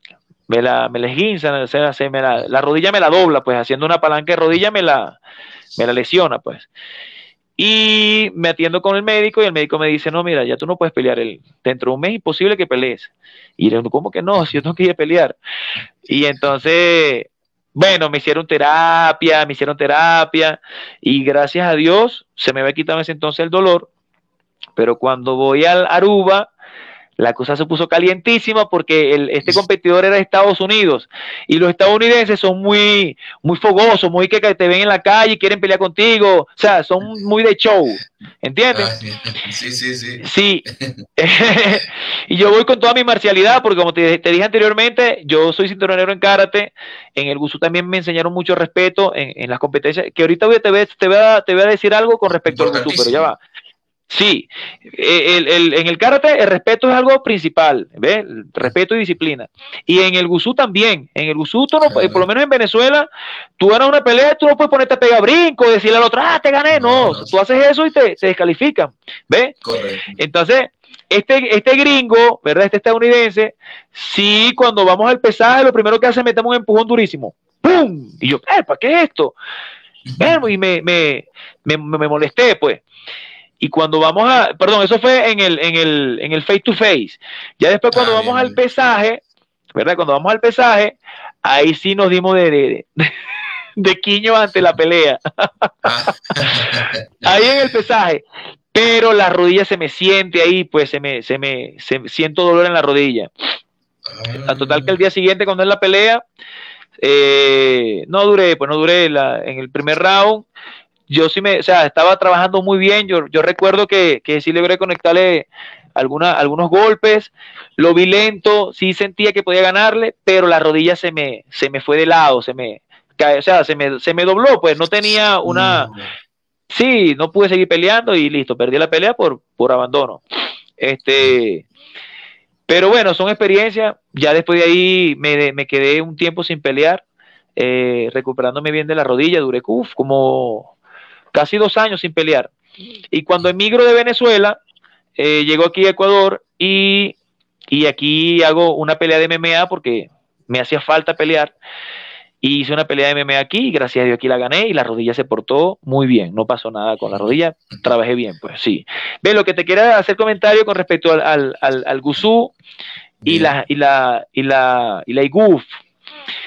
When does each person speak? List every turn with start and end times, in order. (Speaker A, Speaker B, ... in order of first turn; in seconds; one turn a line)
Speaker A: 0.5-5.2
Speaker A: 5.8-6.7
Speaker A: 7.6-15.4
Speaker A: 16.1-23.9
Speaker A: 24.8-26.5
Speaker A: 27.2-38.9
Speaker B: 38.7-41.0
Speaker A: 40.2-40.6
Speaker A: 41.2-53.4
Speaker B: 52.5-53.3
Speaker A: 54.1-63.1
Speaker B: 61.9-62.2
Speaker A: 63.6-69.5
Speaker B: 66.7-67.3
Speaker B: 69.6-70.2
Speaker A: 70.2-79.3
Speaker B: 80.1-80.4
Speaker A: 80.2-82.8
Speaker A: 83.6-89.2
Speaker B: 87.9-88.6
Speaker A: 89.7-93.1
Speaker A: 93.8-95.7
Speaker B: 95.8-97.3
Speaker A: 97.2-103.3
Speaker B: 104.0-104.9
Speaker A: 104.5-106.2
Speaker A: 107.0-110.5
Speaker A: 111.1-125.9
Speaker B: 125.4-126.1
Speaker A: 126.7-130.2
Speaker A: 130.8-131.7
Speaker A: 132.7-137.0
Speaker A: 137.6-140.7
Speaker A: 141.3-142.5
Speaker A: 143.1-144.6
Speaker A: 145.2-147.1
Speaker A: 147.7-151.5
Speaker A: 152.4-162.5
Speaker B: 163.2-163.5
Speaker A: 163.2-165.7